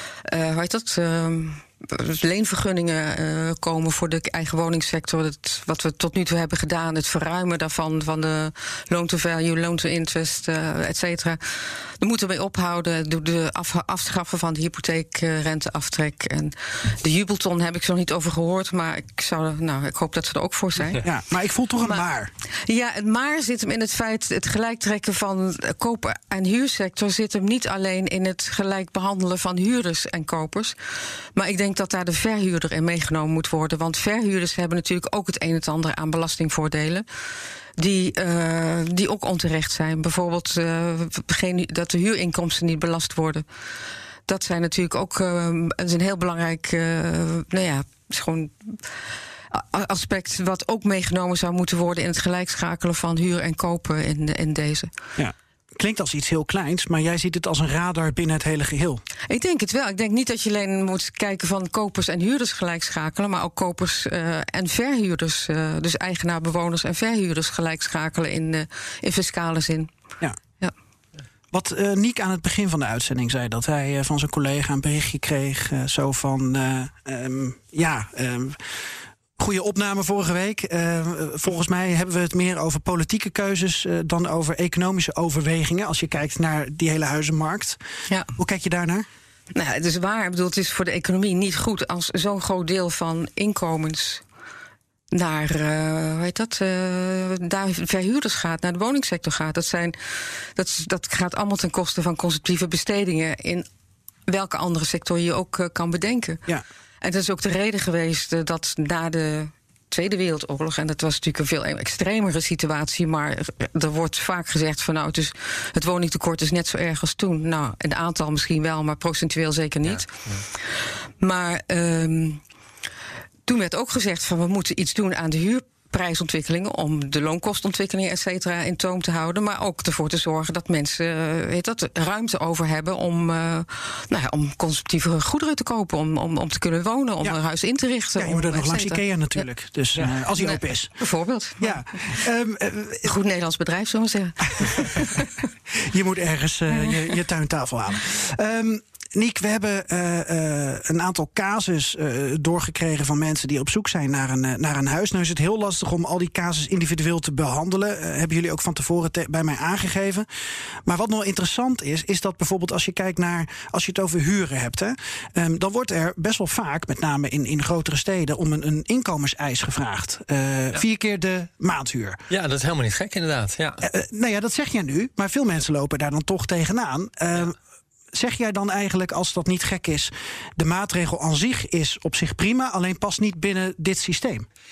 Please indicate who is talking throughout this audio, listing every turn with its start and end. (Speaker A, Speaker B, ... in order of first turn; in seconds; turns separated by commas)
Speaker A: 0.2-21.1, Speaker B: 21.0-22.3, Speaker A: 22.6-30.8, Speaker A: 31.4-37.0, Speaker A: 37.8-43.5, Speaker A: 44.3-48.9, Speaker A: 49.5-54.9, Speaker B: 55.2-59.0, Speaker A: 59.3-69.9, Speaker B: 71.5-78.8, Speaker B: 79.4-87.8, Speaker B: 88.4-89.1, Speaker A: 89.5-94.2, Speaker A: 95.1-103.7, Speaker A: 104.3-106.4, Speaker A: 107.0-120.7, Speaker C: 119.9-120.4, Speaker A: 121.2-122.4, Speaker A: 123.5-139.4, Speaker B: 138.2-140.9, Speaker A: 140.3-141.8, Speaker B: 141.6-143.1, Speaker A: 143.1-145.3, Speaker B: 145.8-160.3, Speaker B: 160.9-172.2, Speaker C: 172.3-173.8, Speaker B: 173.8-177.6, Speaker B: 178.1-184.5